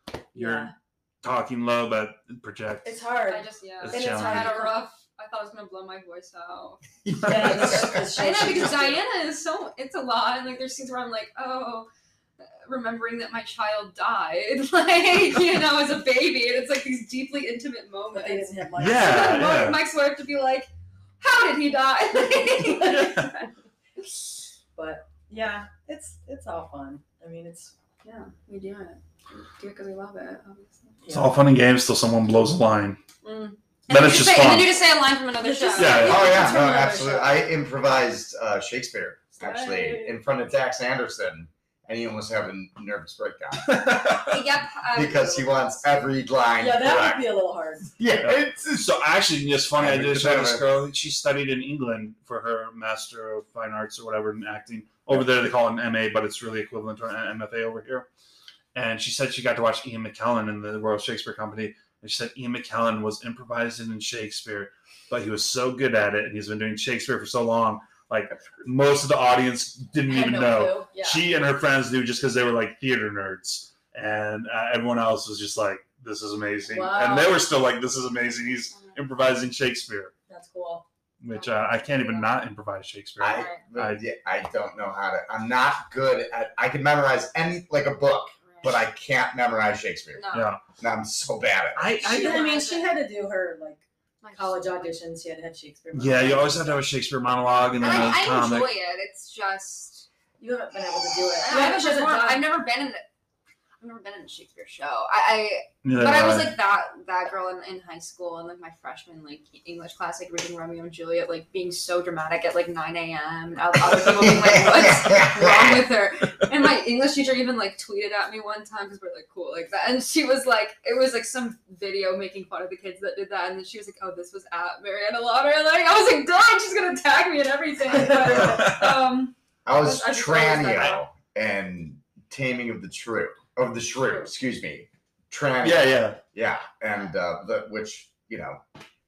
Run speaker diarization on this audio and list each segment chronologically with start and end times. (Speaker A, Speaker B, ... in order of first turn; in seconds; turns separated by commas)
Speaker A: 0.3-0.7, Speaker B: 0.3-0.7, Speaker A: 1.2-3.0, Speaker B: 2.8-4.8, Speaker C: 3.3-6.8, Speaker A: 3.8-4.6, Speaker D: 7.0-8.0, Speaker A: 7.1-8.0, Speaker B: 7.2-9.0, Speaker C: 8.1-11.9, Speaker C: 12.6-20.7, Speaker B: 18.1-19.6, Speaker A: 18.8-19.8, Speaker C: 21.2-23.5, Speaker B: 22.7-23.1, Speaker A: 22.8-23.3, Speaker B: 24.7-27.7, Speaker C: 28.0-31.0, Speaker B: 31.0-31.3, Speaker A: 31.1-33.0, Speaker C: 33.2-36.3, Speaker A: 33.9-34.7, Speaker B: 35.4-37.5, Speaker A: 35.8-36.5, Speaker D: 36.0-44.0, Speaker B: 39.4-40.1, Speaker A: 43.6-44.4, Speaker C: 44.2-45.9, Speaker D: 44.9-47.3, Speaker B: 46.6-47.9, Speaker D: 48.0-49.0, Speaker A: 48.2-58.1, Speaker D: 49.8-50.6, Speaker A: 58.7-80.1, Speaker B: 70.0-71.2, Speaker B: 76.7-77.4, Speaker C: 78.7-79.0, Speaker B: 80.3-80.8, Speaker A: 81.2-84.0, Speaker C: 81.3-82.3, Speaker D: 83.2-90.3, Speaker C: 83.3-83.6, Speaker C: 88.4-88.8, Speaker C: 90.1-90.5, Speaker A: 90.3-90.6, Speaker D: 90.8-91.9, Speaker A: 91.7-92.5, Speaker C: 92.0-93.0, Speaker B: 92.0-96.8, Speaker C: 94.2-94.9, Speaker A: 95.9-98.7, Speaker C: 97.8-100.1, Speaker B: 100.4-102.5, Speaker C: 101.4-103.0, Speaker C: 103.8-131.0, Speaker A: 105.8-106.5, Speaker D: 114.0-115.9, Speaker B: 127.9-128.7, Speaker D: 128.0-128.7, Speaker A: 128.2-129.0, Speaker D: 129.7-138.6, Speaker A: 135.6-136.2